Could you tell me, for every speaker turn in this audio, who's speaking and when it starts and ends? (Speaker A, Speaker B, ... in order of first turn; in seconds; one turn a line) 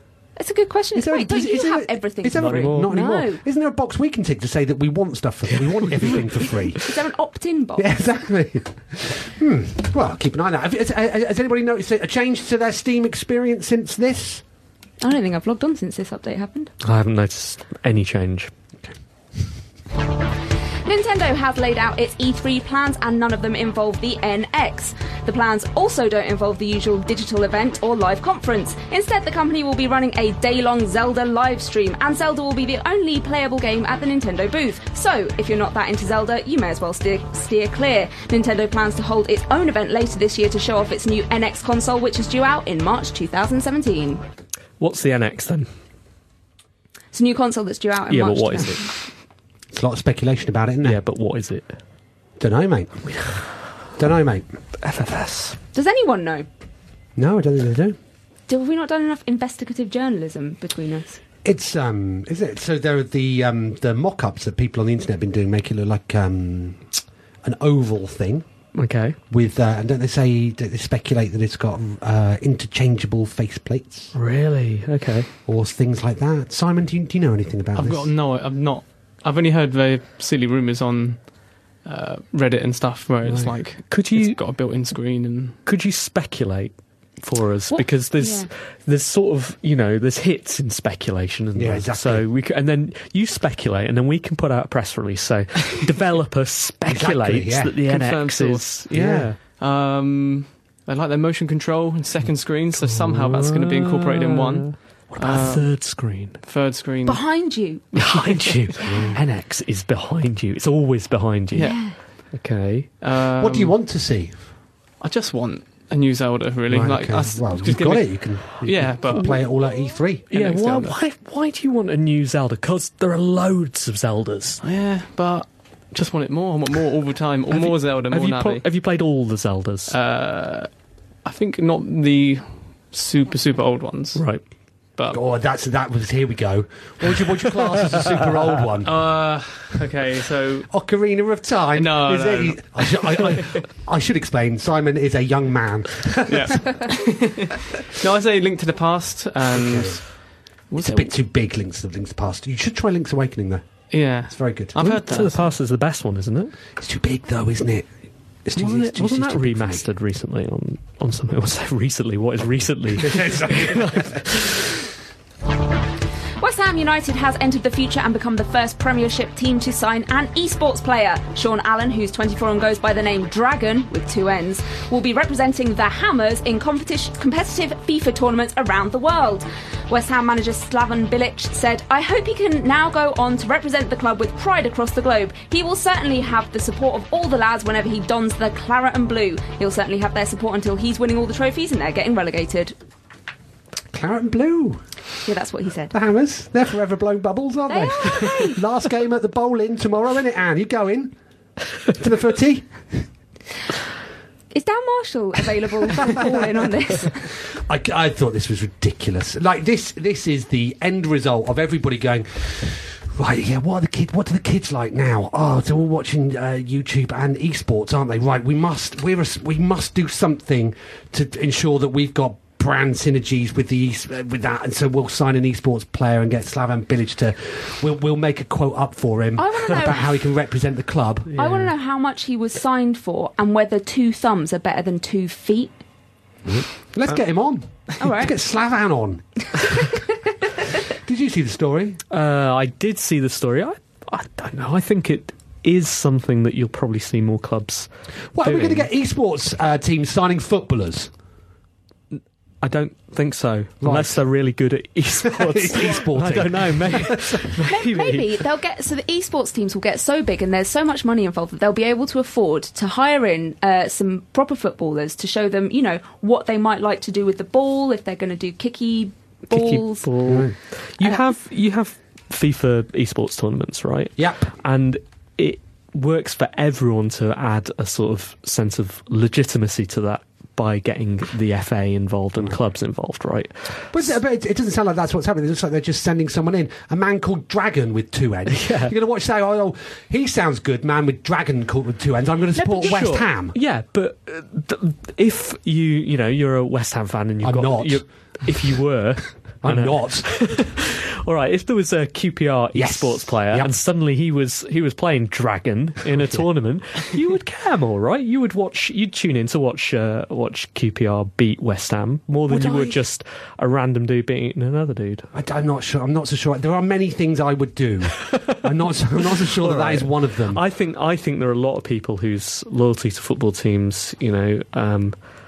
Speaker A: 0.3-3.4
Speaker B: 0.9-6.9
Speaker C: 2.3-2.9
Speaker A: 6.8-7.9
Speaker B: 7.8-14.4
Speaker A: 15.0-16.7
Speaker C: 16.8-18.5
Speaker A: 20.8-44.2
Speaker C: 44.8-45.7
Speaker A: 47.1-48.9
Speaker C: 48.1-48.9
Speaker B: 49.7-51.0
Speaker C: 50.8-51.8
Speaker B: 52.4-53.1
Speaker B: 54.0-54.5
Speaker C: 54.8-55.6
Speaker A: 55.7-56.5
Speaker B: 57.1-58.0
Speaker A: 58.5-61.2
Speaker B: 61.4-68.5
Speaker C: 68.7-69.2
Speaker B: 69.3-74.1
Speaker C: 74.1-75.3
Speaker B: 75.5-78.1
Speaker D: 77.7-85.6
Speaker C: 83.9-84.4
Speaker C: 85.7-99.4
Speaker A: 87.7-88.5
Speaker B: 91.5-92.3
Speaker B: 96.9-97.8
Speaker D: 97.8-98.8
Speaker B: 98.9-99.3
Speaker D: 99.4-105.7
Speaker C: 102.7-106.4
Speaker D: 106.4-107.2
Speaker A: 107.0-108.0
Speaker C: 107.9-112.9
Speaker B: 108.9-109.2
Speaker D: 111.5-111.8
Speaker A: 111.6-112.0
Speaker D: 113.0-113.7
Speaker B: 113.4-114.4
Speaker D: 115.0-119.4
Speaker B: 116.7-120.3
Speaker D: 120.3-121.0
Speaker C: 120.3-124.6
Speaker D: 124.6-128.6
Speaker C: 127.5-129.9
Speaker D: 129.9-134.3
Speaker C: 134.1-134.4
Speaker D: 134.9-135.2
Speaker B: 135.1-138.9
Speaker D: 138.8-140.7
Speaker B: 140.7-146.7
Speaker D: 141.7-143.4
Speaker D: 146.3-151.1
Speaker B: 149.5-150.1
Speaker B: 150.8-153.7
Speaker D: 153.9-155.5
Speaker B: 154.2-154.8
Speaker C: 154.8-156.5
Speaker B: 156.8-157.9
Speaker B: 158.4-159.8
Speaker C: 158.6-164.7
Speaker B: 163.0-164.2
Speaker A: 166.4-192.7
Speaker B: 193.9-194.8
Speaker A: 195.2-195.9
Speaker B: 195.9-201.1
Speaker A: 197.7-198.6
Speaker B: 201.9-203.0
Speaker A: 204.5-207.3
Speaker B: 206.0-206.4
Speaker B: 207.4-231.3
Speaker A: 229.4-230.1
Speaker A: 231.3-235.8
Speaker C: 231.4-231.7
Speaker B: 236.4-239.5
Speaker A: 238.0-238.3
Speaker B: 240.9-242.0
Speaker C: 242.1-247.9
Speaker B: 248.3-251.1
Speaker C: 248.4-248.9
Speaker C: 252.1-258.4
Speaker B: 253.8-254.2
Speaker B: 255.2-257.4
Speaker A: 257.7-270.1
Speaker C: 269.5-284.0
Speaker B: 270.2-270.5
Speaker B: 274.2-274.5
Speaker B: 283.9-293.6
Speaker C: 288.5-288.9
Speaker C: 292.6-315.3
Speaker B: 297.4-298.5
Speaker B: 299.6-300.3
Speaker B: 302.7-303.7
Speaker B: 312.5-313.0
Speaker B: 315.3-320.6
Speaker C: 319.6-325.1